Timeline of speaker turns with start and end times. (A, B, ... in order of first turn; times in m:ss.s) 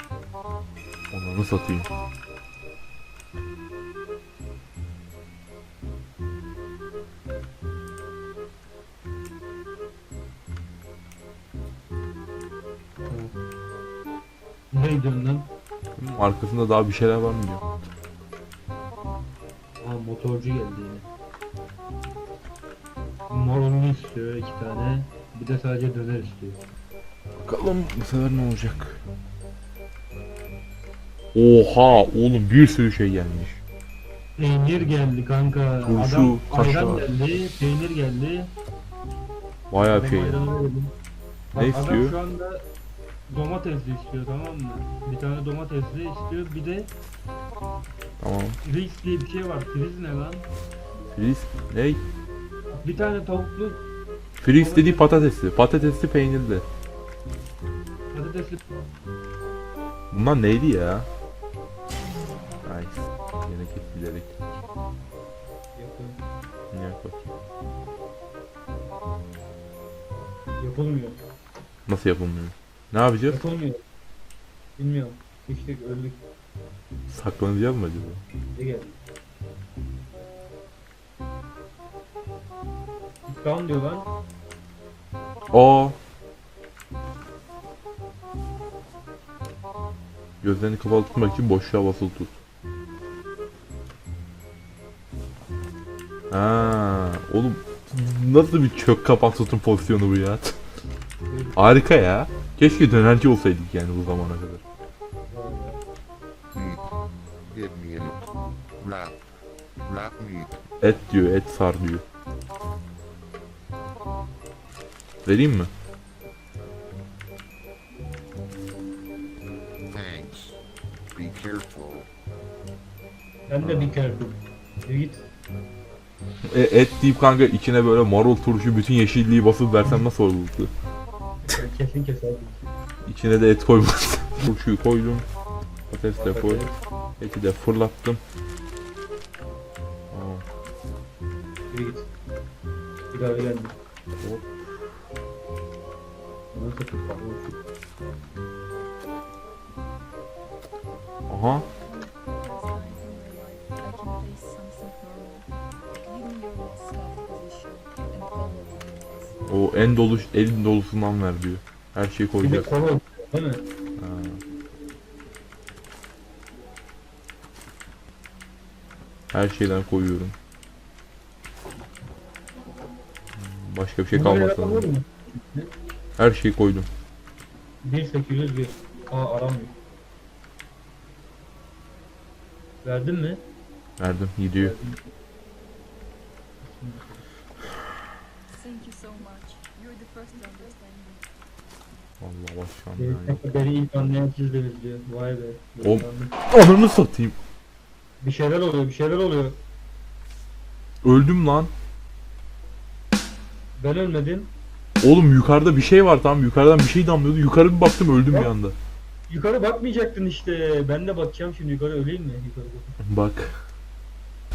0:01.1-0:01.9 A
0:13.1-0:13.4 B
0:14.7-0:15.5 B
0:16.0-0:17.7 A
0:19.8-0:21.1 B
0:23.3-0:26.6 B
0:27.4-0:29.0 A
0:31.3-0:33.6 A
0:34.4-0:38.5 B
0:35.8-0:37.1 A
0:39.7-0:40.5 A
0:39.8-0:40.9 B
0:41.6-0:42.6 B
0:41.6-0:42.2 A
0:43.3-0:46.9 B
0:48.2-0:48.6 A
0:48.6-0:50.5 B
0:51.1-0:52.0 A
0:52.7-0:53.8 B
0:54.4-0:56.6 A
0:54.6-0:55.3 B
0:58.1-0:58.6 B
1:00.1-1:01.1 A
1:02.6-1:04.6 A
1:05.8-1:06.2 B
1:06.7-1:07.3 A
1:10.6-1:11.2 B
1:11.9-1:13.4 A
1:13.3-1:13.8 B
1:14.8-1:16.2 B
1:17.1-1:18.2 A
1:18.5-1:19.0 B
1:23.3-1:24.1 B
1:25.5-1:26.0 A
1:30.4-1:32.4 A
1:36.3-1:40.6 A
1:41.3-1:41.6 B
1:41.6-1:44.6 A
1:45.3-1:45.8 B
1:46.6-1:46.8 C
1:47.5-1:48.2 C
1:48.8-1:49.2 C
1:49.8-1:50.5 C
1:50.8-1:52.0 A
1:55.2-1:55.7 A
1:59.9-2:00.6 C
2:01.2-2:02.1 C
2:03.5-2:05.2 B
2:03.6-2:04.0 A
2:06.5-2:10.7 A
2:11.6-2:12.6 B
2:13.1-2:15.3 A
2:15.9-2:16.7 A
2:16.2-2:16.8 B
2:17.2-2:18.2 A
2:20.1-2:20.4 A
2:21.7-2:22.1 B
2:23.1-2:23.8 B
2:24.2-2:24.6 A
2:26.5-2:27.6 B
2:31.3-2:31.7 A
2:31.7-2:39.4 D
2:39.5-2:42.7 A
2:42.4-2:43.6 B
2:44.0-2:44.4 A
2:49.3-2:50.4 A
2:53.4-2:54.9 A
2:54.1-2:55.7 B
2:56.2-2:56.9 A
2:57.8-2:59.7 B
3:02.8-3:03.4 B
3:04.0-3:04.8 A
3:04.6-3:05.0 B
3:06.6-3:07.2 B
3:08.5-3:11.3 D
3:12.2-3:13.4 A
3:13.0-3:16.3 B
3:15.8-3:17.4 A
3:18.2-3:19.6 B
3:21.0-3:21.7 A
3:23.8-3:24.5 B
3:25.0-3:28.8 A
3:28.3-3:28.5 B
3:29.3-3:33.0 B
3:33.0-3:33.5 A